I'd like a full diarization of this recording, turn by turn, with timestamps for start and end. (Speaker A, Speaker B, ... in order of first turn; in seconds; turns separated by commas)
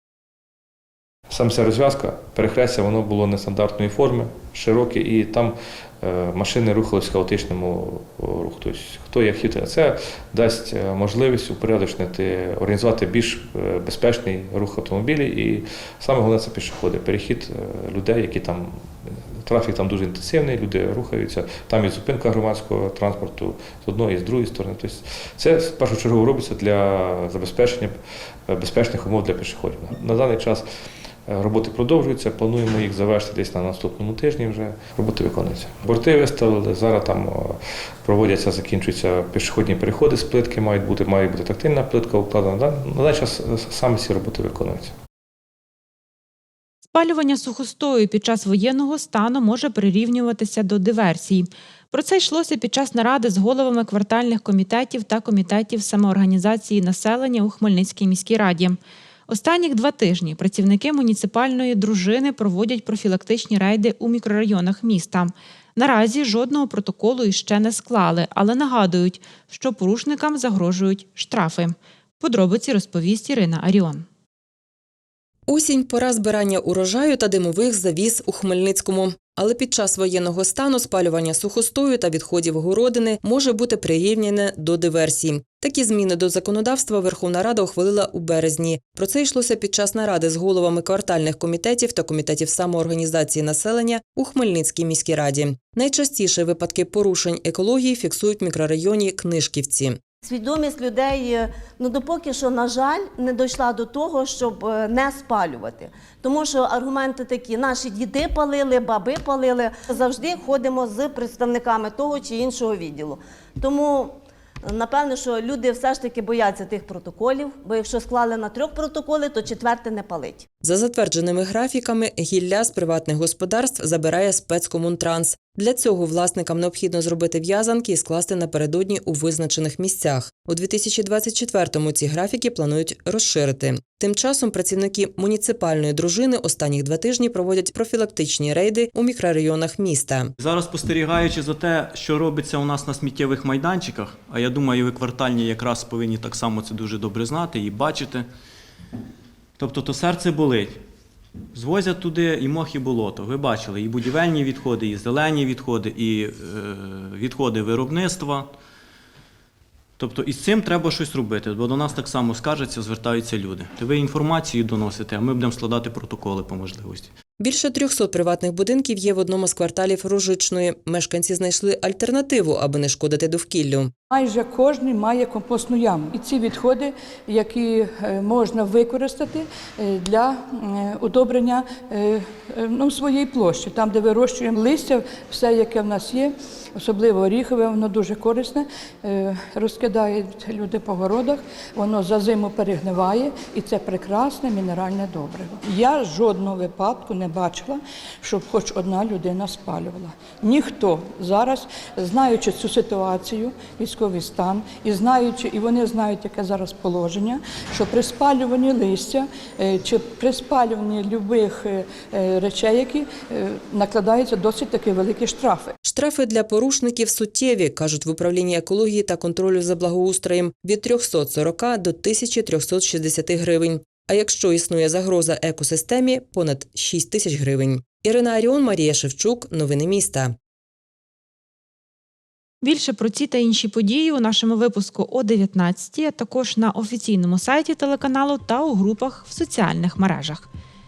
Speaker A: 1.3-27.9, Speaker A: 28.5-30.6, Speaker A: 31.3-44.9, Speaker B: 46.9-74.0, Speaker C: 75.5-100.0, Speaker D: 100.2-120.5, Speaker C: 120.6-140.3, Speaker E: 140.4-148.2, Speaker E: 149.6-150.8, Speaker E: 151.5-158.5, Speaker E: 160.0-167.1, Speaker C: 167.4-173.9, Speaker F: 174.1-215.7, Speaker C: 215.8-230.3, Speaker B: 232.6-240.5